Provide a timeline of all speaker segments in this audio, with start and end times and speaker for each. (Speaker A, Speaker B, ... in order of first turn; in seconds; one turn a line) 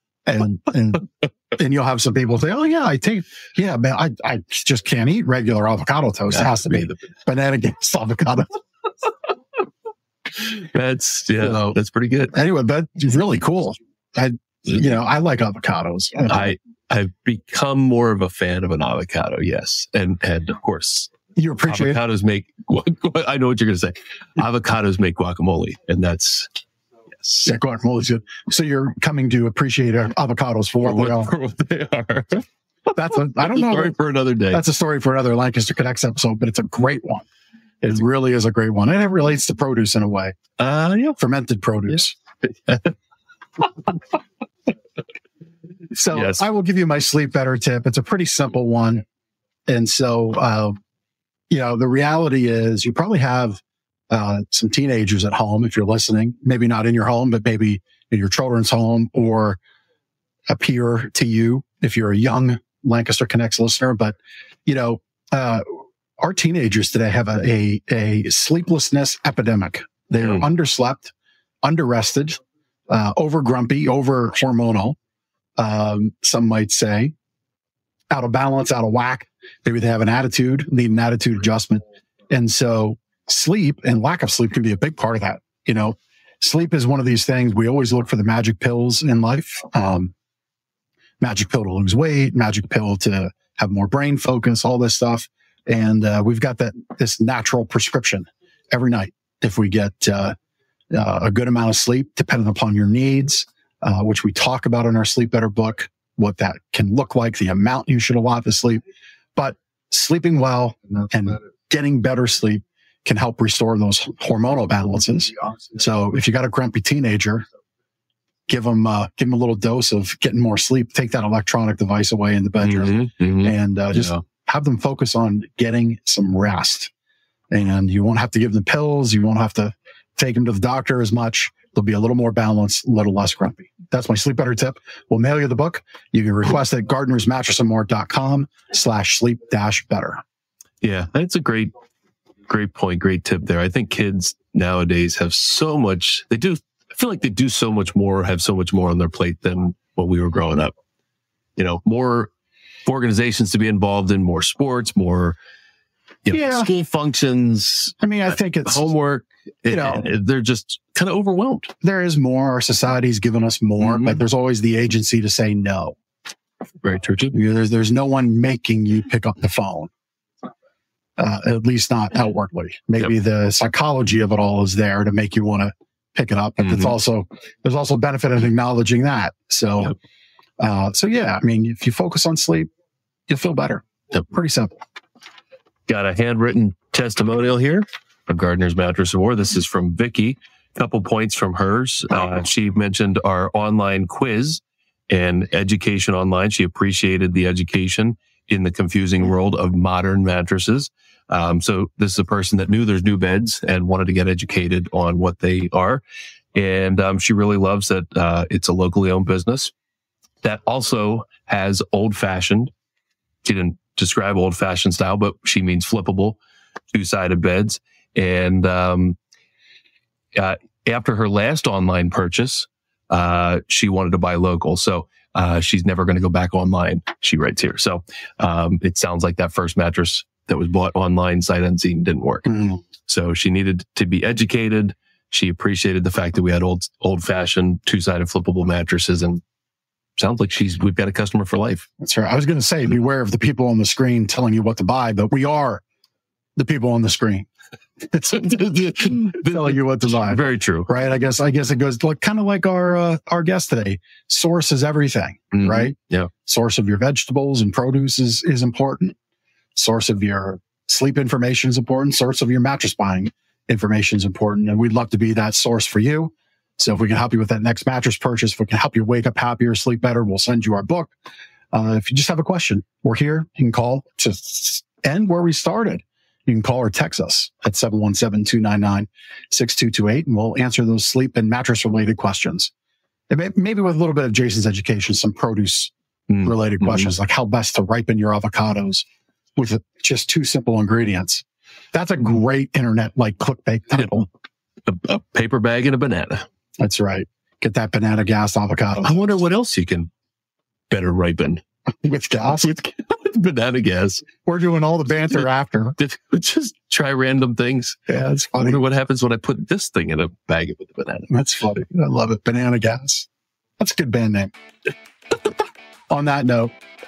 Speaker A: 0.3-8.5
Speaker B: 6.3-7.0
Speaker B: 10.4-12.3
Speaker A: 12.3-16.5
Speaker B: 16.3-21.1
Speaker A: 21.4-22.0
Speaker B: 21.7-26.5
Speaker A: 27.4-31.3
Speaker B: 30.9-32.5
Speaker A: 32.9-34.0
Speaker B: 33.5-34.6
Speaker A: 34.5-37.2
Speaker A: 37.8-40.4
Speaker B: 40.6-41.1
Speaker A: 41.1-42.2
Speaker B: 42.7-42.9
Speaker A: 45.9-49.0
Speaker B: 46.1-46.4
Speaker A: 49.7-50.8
Speaker A: 51.5-59.6
Speaker A: 60.5-75.0
Speaker A: 75.6-77.1
Speaker A: 78.1-90.1
Speaker A: 91.2-100.3
Speaker A: 100.9-108.8
Speaker A: 109.4-117.5
Speaker A: 118.5-126.9
Speaker B: 122.6-124.2
Speaker A: 127.5-140.2
Speaker B: 140.8-141.7
Speaker B: 142.5-150.7
Speaker B: 151.6-152.3
Speaker B: 152.9-155.4
Speaker B: 156.3-158.0
Speaker A: 156.3-156.7
Speaker A: 158.0-158.9
Speaker B: 158.7-161.7
Speaker A: 159.7-160.1
Speaker A: 161.8-166.0
Speaker B: 163.8-164.2
Speaker B: 166.8-167.3
Speaker A: 167.3-169.9
Speaker A: 171.2-179.9
Speaker A: 180.6-182.7
Speaker A: 183.3-184.8
Speaker B: 185.9-206.0
Speaker B: 206.5-209.7
Speaker B: 210.4-212.7
Speaker B: 213.4-216.4
Speaker B: 216.9-219.2
Speaker B: 220.3-232.5
Speaker A: 232.5-232.8
Speaker B: 233.0-239.4
Speaker B: 240.2-241.9
Speaker A: 242.0-245.8
Speaker A: 246.6-247.5
Speaker A: 248.1-259.2
Speaker B: 248.3-250.9
Speaker B: 255.5-256.3
Speaker A: 259.8-271.1
Speaker A: 271.7-282.7
Speaker A: 283.3-289.1
Speaker B: 286.3-287.1
Speaker A: 289.6-294.3
Speaker B: 294.9-296.5
Speaker A: 296.8-299.3
Speaker B: 299.0-300.1
Speaker B: 300.9-301.6
Speaker A: 302.0-302.9
Speaker B: 303.1-304.3
Speaker A: 304.5-306.0
Speaker B: 306.0-311.3
Speaker A: 308.1-308.8
Speaker A: 311.3-313.3
Speaker A: 313.8-314.5
Speaker A: 316.1-316.7